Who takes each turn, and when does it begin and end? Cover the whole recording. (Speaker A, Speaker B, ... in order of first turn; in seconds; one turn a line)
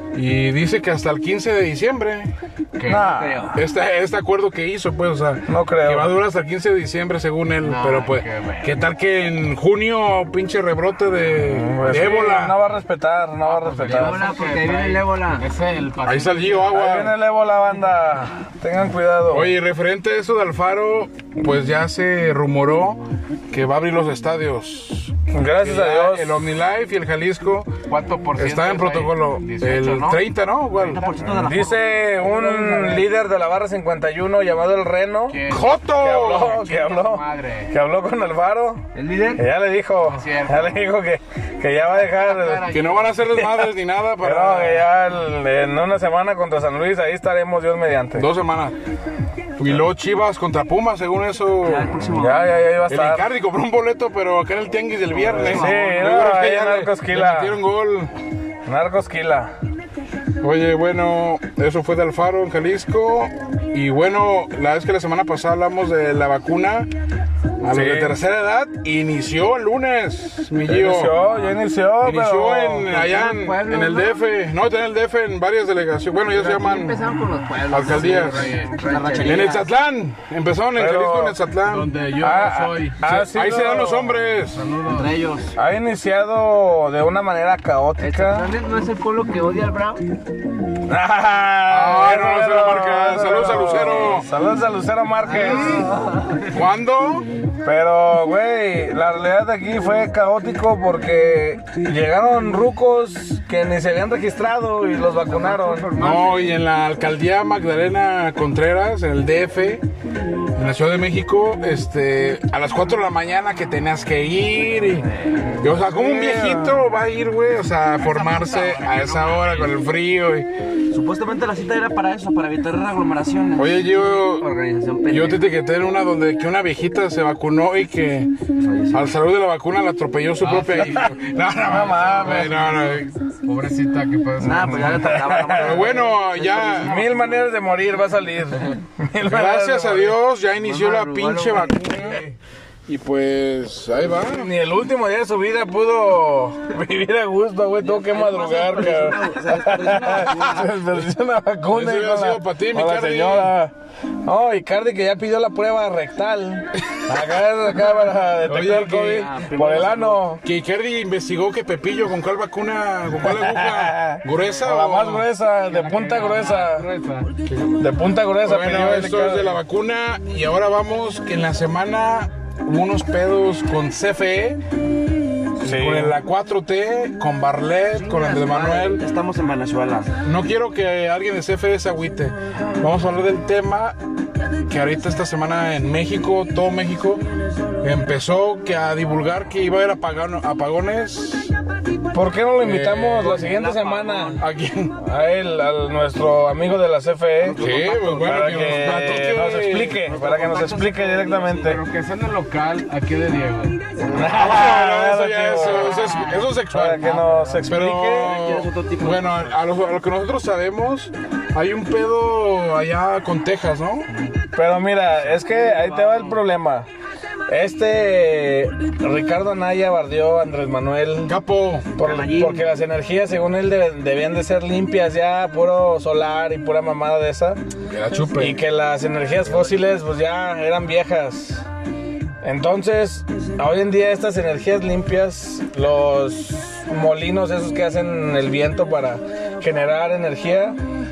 Speaker A: 0.1-2.3
Speaker B: 2.8-3.2
Speaker C: 2.9-3.6
Speaker A: 3.5-12.6
Speaker C: 5.5-6.1
Speaker B: 7.6-8.8
Speaker C: 11.4-14.3
Speaker B: 13.4-16.8
Speaker D: 13.9-15.5
Speaker A: 16.0-17.1
Speaker C: 16.7-19.6
Speaker A: 19.3-27.8
Speaker C: 25.3-26.4
Speaker B: 27.9-30.2
Speaker A: 28.4-31.0
Speaker E: 30.8-31.9
Speaker C: 31.2-35.4
Speaker B: 35.3-35.7
Speaker A: 35.5-36.6
Speaker C: 35.9-42.7
Speaker B: 36.4-37.7
Speaker D: 38.9-39.4
Speaker B: 40.0-40.8
Speaker B: 41.8-43.2
Speaker A: 42.7-44.9
Speaker C: 43.3-48.3
Speaker A: 48.1-48.8
Speaker A: 49.6-52.0
Speaker E: 51.6-52.6
Speaker C: 52.1-53.3
Speaker A: 52.9-58.1
Speaker E: 55.1-56.0
Speaker C: 55.3-57.6
Speaker C: 58.6-59.5
Speaker A: 60.4-66.9
Speaker A: 67.6-71.3
Speaker C: 67.7-68.1
Speaker C: 70.7-72.9
Speaker A: 72.0-77.0
Speaker D: 72.8-74.2
Speaker D: 76.3-79.5
Speaker A: 77.7-78.5
Speaker B: 77.8-78.8
Speaker E: 78.8-79.7
Speaker A: 79.2-81.9
Speaker C: 80.7-81.4
Speaker B: 81.7-83.0
Speaker C: 82.2-84.2
Speaker A: 83.0-84.6
Speaker B: 84.5-85.1
Speaker E: 84.9-85.5
Speaker C: 85.5-88.5
Speaker D: 88.0-90.0
Speaker C: 90.9-95.9
Speaker A: 91.7-94.3
Speaker D: 95.2-96.5
Speaker A: 96.5-97.2
Speaker C: 97.6-105.9
Speaker D: 105.3-106.4
Speaker A: 105.9-109.8
Speaker A: 110.5-115.1
Speaker A: 115.6-120.5
Speaker C: 116.1-116.7
Speaker B: 118.0-119.8
Speaker E: 120.9-125.4
Speaker A: 123.5-124.5
Speaker A: 125.1-128.3
Speaker E: 128.6-129.1
Speaker A: 128.9-133.1
Speaker B: 130.4-131.2
Speaker C: 130.8-131.1
Speaker C: 131.6-132.6
Speaker B: 132.1-135.2
Speaker E: 134.4-137.3
Speaker C: 134.7-135.8
Speaker A: 135.6-137.0
Speaker C: 136.8-140.2
Speaker A: 139.2-142.2
Speaker D: 140.6-142.2
Speaker A: 142.9-144.5
Speaker C: 144.3-160.4
Speaker E: 147.8-150.7
Speaker D: 148.7-149.2
Speaker A: 151.7-153.6
Speaker A: 158.5-159.4
Speaker B: 159.3-160.2
Speaker A: 160.4-165.3
Speaker C: 163.2-166.9
Speaker B: 165.6-167.3
Speaker C: 167.8-169.6
Speaker A: 168.4-174.6
Speaker C: 175.6-176.2
Speaker A: 175.6-179.0
Speaker E: 178.1-180.1
Speaker A: 180.2-184.0
Speaker A: 184.7-187.2
Speaker A: 187.8-191.5
Speaker C: 192.1-194.4
Speaker A: 192.6-193.5
Speaker E: 193.3-194.4
Speaker A: 194.4-195.0
Speaker C: 194.9-197.6
Speaker E: 197.4-198.7
Speaker A: 197.5-200.0
Speaker C: 198.2-201.8
Speaker E: 200.0-201.7
Speaker B: 201.6-203.8
Speaker E: 204.0-204.4
Speaker C: 204.1-208.3
Speaker A: 204.1-207.1
Speaker E: 207.1-209.6
Speaker A: 207.6-214.1
Speaker C: 214.5-216.9
Speaker E: 215.7-216.3
Speaker C: 217.5-221.4
Speaker A: 221.2-221.9
Speaker C: 222.0-227.6
Speaker E: 222.0-222.7
Speaker A: 227.9-228.6
Speaker C: 228.4-231.6
Speaker C: 232.4-240.8